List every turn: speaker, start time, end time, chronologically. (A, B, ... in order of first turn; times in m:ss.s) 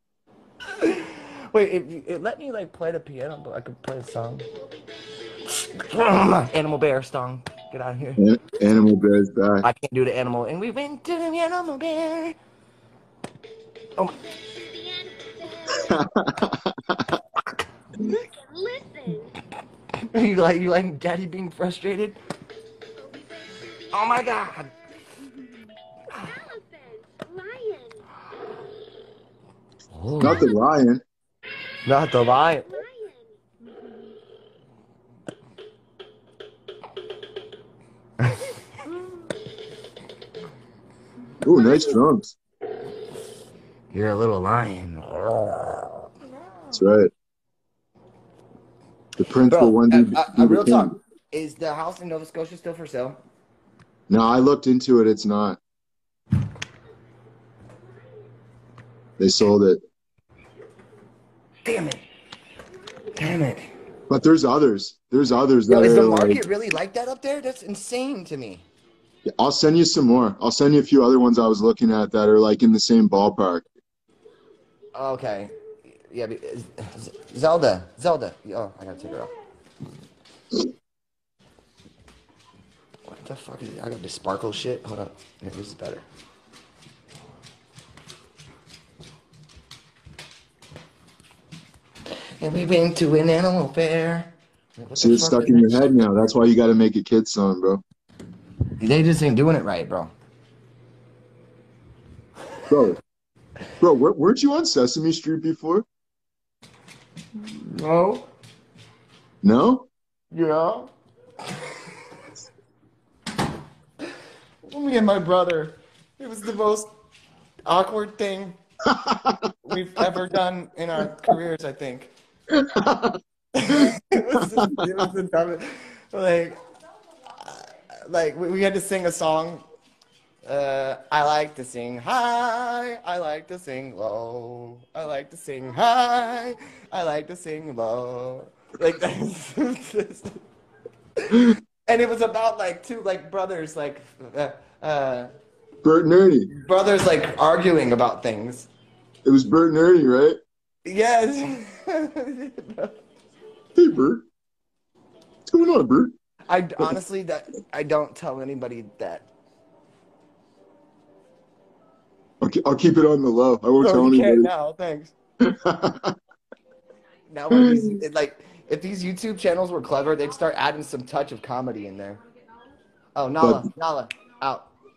0:00.8-0:04.4 A
0:05.6-0:08.2 A
0:08.2-0:09.7 B
0:09.6-0:12.4 A
0:14.3-0:16.0 C
0:15.8-0:17.0 B
0:18.0-0:19.3 C
0:20.1-0:22.2 A
0:23.0-0:24.7 C
0:23.9-0:24.7 A
0:26.2-0:28.0 C
0:29.9-0:30.5 A
0:30.2-0:31.0 B
0:31.8-0:32.7 A
0:32.7-0:33.4 C
0:41.4-0:42.3 B
0:43.9-0:46.1 A
0:46.7-0:47.1 B
0:49.2-0:50.9 B
0:49.5-0:53.2 A
0:54.1-0:55.6 B
0:59.2-0:59.8 B
1:01.6-1:02.1 A
1:03.2-1:03.7 A
1:04.1-1:06.4 B
1:05.7-1:08.6 A
1:09.2-1:13.7 B
1:14.9-1:15.5 A
1:16.1-1:19.3 A
1:23.1-1:26.0 A
1:32.4-1:35.9 A
1:35.0-1:37.8 B
1:38.8-1:40.1 A
1:42.7-1:43.0 B
1:43.8-1:45.8 B
1:47.5-1:48.3 A
1:49.4-1:49.9 B
1:50.3-1:50.9 A
1:54.6-1:56.9 A
1:57.6-1:58.6 A
1:58.9-1:59.4 B
1:59.6-2:02.1 A
2:02.5-2:03.2 B
2:03.5-2:06.6 A
2:03.7-2:04.7 B
2:07.4-2:09.6 A
2:10.4-2:20.4 A
2:21.2-2:25.3 A
2:25.8-2:26.5 B
2:26.5-2:28.7 A
2:29.2-2:30.4 B
2:30.8-2:32.9 A
2:33.7-2:34.2 B
2:35.5-2:36.1 B
2:36.5-2:39.3 A
2:42.4-2:44.5 B
2:43.8-2:45.1 A
2:45.4-2:46.1 B
2:47.3-2:52.2 A
2:47.5-2:48.0 B
2:53.1-2:54.7 A
2:53.4-2:53.7 B